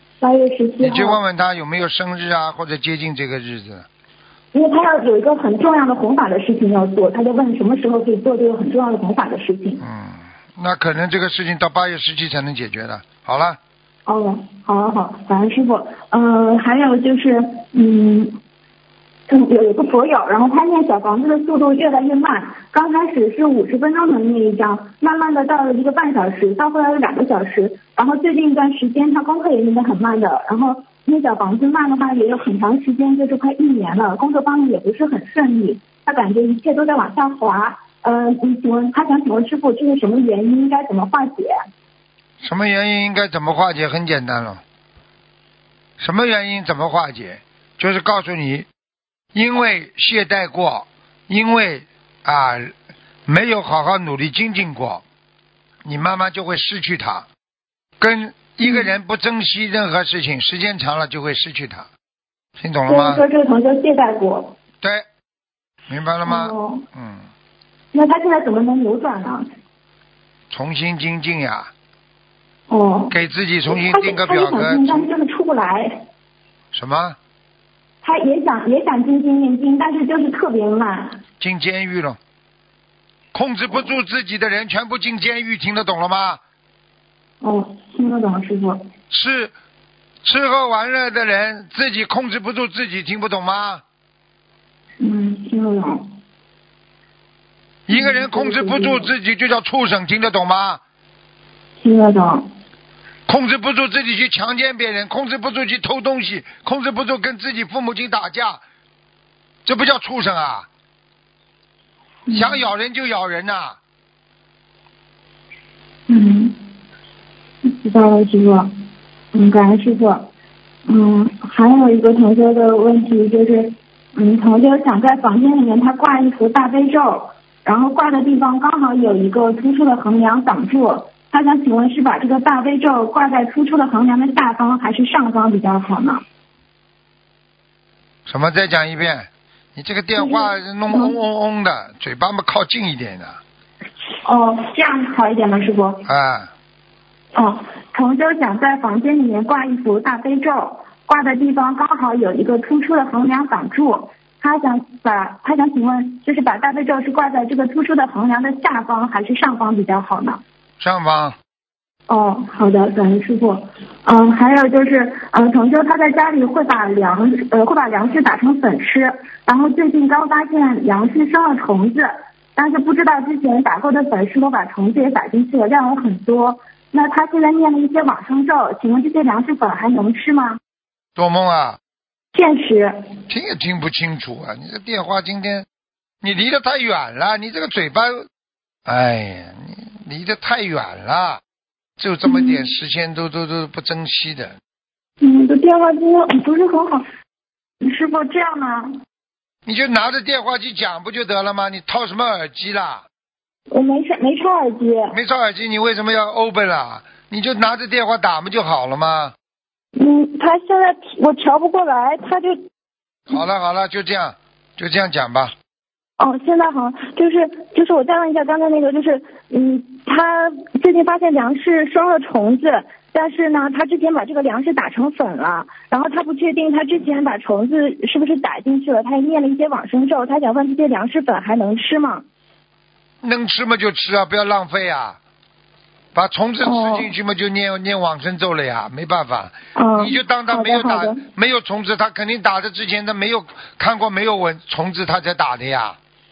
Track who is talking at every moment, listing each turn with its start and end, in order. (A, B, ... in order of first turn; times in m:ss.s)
0:00.2-0:01.2 A
0:00.8-0:03.9 B
0:04.5-0:09.8 A
0:09.8-0:13.6 B
0:14.0-0:18.3 A
0:19.3-0:41.5 A
0:42.4-0:44.6 B
0:46.0-0:48.7 B
0:49.3-0:52.7 B
0:53.3-0:55.0 B
0:55.8-0:57.3 B
0:58.0-1:01.9 B
0:58.6-0:58.9 A
1:02.6-1:03.2 B
1:02.9-1:04.5 A
1:05.9-1:07.3 B
1:06.2-1:06.8 A
1:07.9-1:09.5 A
1:10.5-1:11.7 B
1:12.7-1:13.1 A
1:13.1-1:15.1 B
1:13.7-1:16.0 A
1:16.7-1:17.2 B
1:18.0-1:21.2 A
1:21.4-1:22.2 B
1:23.3-1:26.4 B
1:27.4-1:28.8 A
1:29.1-1:29.5 B
1:30.2-1:33.8 B
1:35.0-1:36.1 A
1:37.9-1:40.8 B
1:37.9-1:39.1 A
1:41.8-1:42.4 A
1:43.3-1:48.6 B
1:49.6-1:50.7 B
1:52.3-1:52.6 A
1:52.3-1:53.8 B
1:56.1-1:56.6 A
1:57.6-1:58.7 A
1:59.3-2:00.3 A
2:00.9-2:16.2 A
2:18.2-2:23.4 B
2:20.2-2:21.2 A
2:24.2-2:26.0 A
2:26.0-2:26.5 B
2:27.3-2:40.4 A
2:40.8-2:41.4 B
2:42.1-3:00.6 A
3:01.2-3:01.8 B
3:02.3-3:03.0 A
3:03.3-3:05.6 B
3:06.2-3:08.2 B
3:08.8-3:11.4 B
3:12.0-3:14.6 B
3:12.2-3:12.6 A
3:15.2-3:17.0 A
3:17.8-3:19.0 A
3:19.6-3:23.0 B
3:23.7-3:25.2 A
3:25.1-3:29.3 B
3:29.9-3:32.6 A
3:33.3-3:35.5 B
3:36.2-3:52.2 A
3:53.2-3:55.2 B
3:56.1-4:06.0 B
3:56.6-3:57.1 A
3:59.8-4:01.2 A